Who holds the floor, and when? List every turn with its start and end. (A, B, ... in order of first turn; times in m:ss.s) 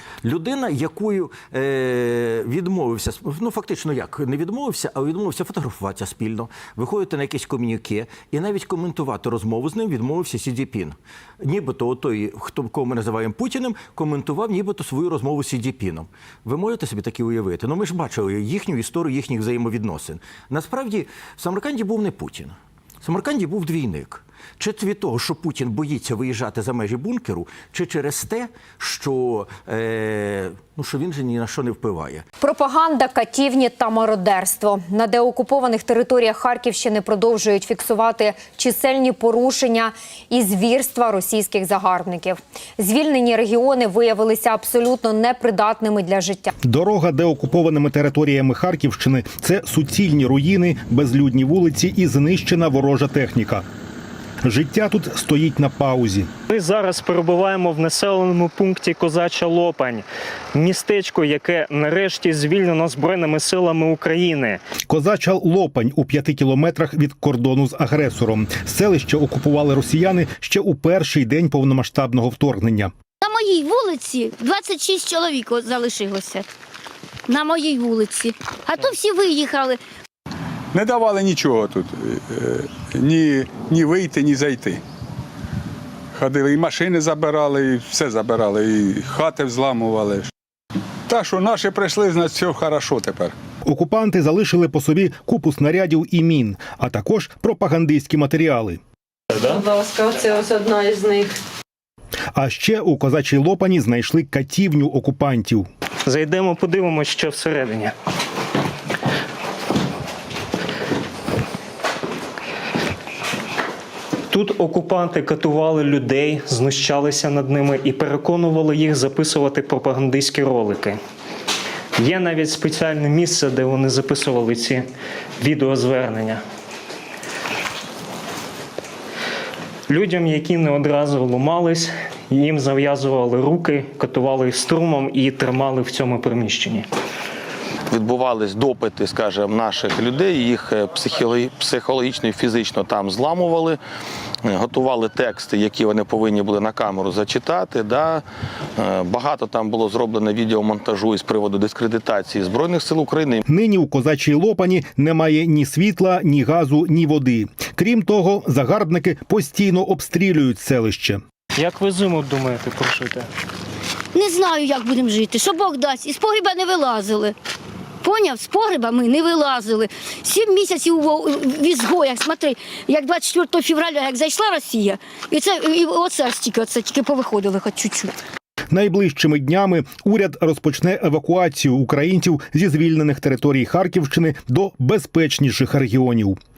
0:00.2-0:32.3 A
0:32.4-0:46.5 B
0:46.6-0:53.6 C
0:54.4-0:56.3 C
0:56.5-1:04.6 D
1:04.8-1:12.9 C
1:13.2-1:16.5 E
1:17.3-1:19.8 E
1:20.7-1:24.8 F
1:26.2-1:30.3 F
1:31.1-1:33.3 F
1:33.6-1:38.8 C
1:39.4-1:41.4 G
1:42.3-1:45.7 C
1:46.1-1:47.9 D
1:54.3-2:01.0 D
2:02.0-2:04.9 D
2:05.4-2:06.4 D
2:09.9-2:16.9 D
2:17.9-2:23.8 H
2:24.4-2:28.2 H
2:28.8-2:33.4 H
2:33.5-2:41.2 C
2:41.6-2:43.3 D
2:44.1-2:47.4 E
2:48.0-2:58.1 E
2:58.7-3:06.4 C